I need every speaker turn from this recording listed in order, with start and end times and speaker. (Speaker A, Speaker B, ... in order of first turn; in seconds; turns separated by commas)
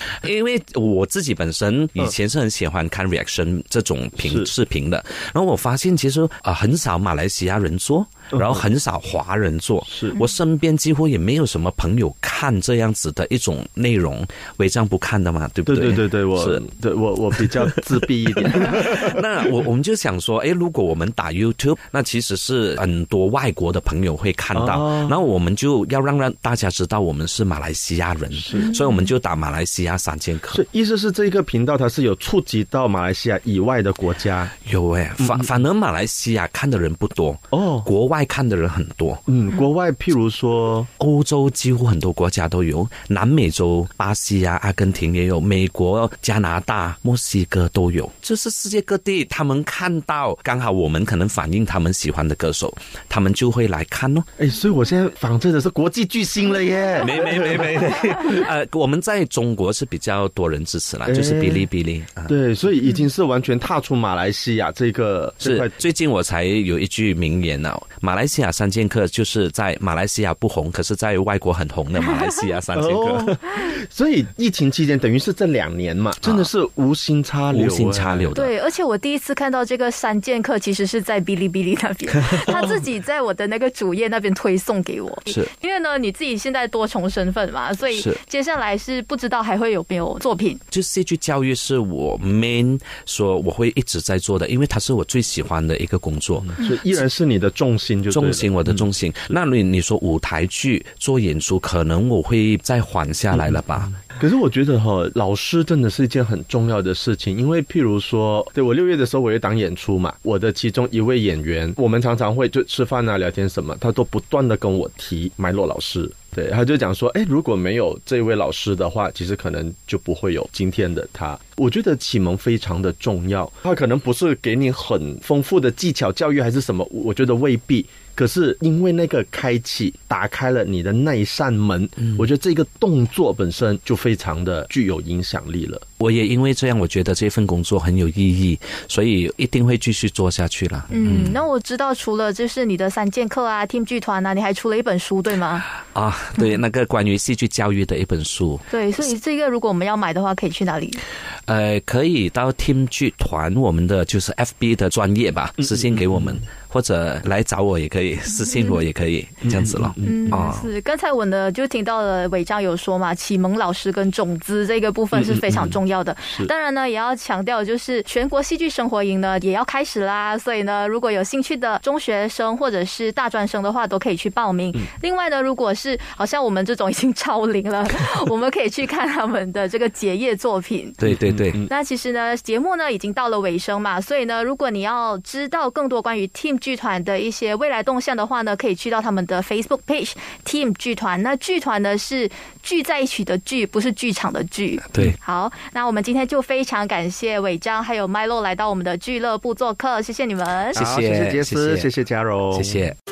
Speaker A: 0.2-16.6, Speaker B: 4.2-4.5, Speaker B: 8.3-8.6, Speaker B: 9.9-10.2, Speaker B: 15.7-19.2, Speaker A: 17.4-17.8, Speaker A: 18.4-30.6, Speaker B: 24.5-25.1, Speaker B: 28.4-28.6, Speaker C: 28.5-29.0, Speaker B: 30.5-34.5, Speaker A: 34.6-39.2, Speaker B: 35.2-35.5, Speaker B: 37.5-37.9, Speaker B: 39.3-40.9, Speaker A: 41.0-54.3, Speaker B: 54.4-58.2, Speaker A: 57.0-62.3, Speaker B: 61.0-61.7, Speaker B: 62.3-65.7, Speaker A: 65.4-73.6, Speaker B: 72.7-78.3, Speaker A: 76.2-76.5, Speaker A: 77.5-78.5, Speaker C: 78.3-90.6, Speaker A: 87.9-88.2, Speaker A: 90.7-96.5, Speaker B: 96.5-98.8, Speaker A: 98.1-104.0, Speaker B: 104.1-135.8, Speaker A: 136.0-141.4, Speaker C: 140.9-145.7, Speaker A: 145.9-148.7, Speaker C: 148.7-151.0, Speaker A: 151.5-160.7, Speaker B: 159.4-160.4, Speaker C: 160.0-181.0, Speaker B: 165.1-165.7, Speaker A: 181.0-181.6, Speaker B: 181.2-181.7, Speaker C: 181.7-200.8, Speaker A: 200.7-201.9, Speaker B: 200.7-202.8, Speaker A: 202.5-202.9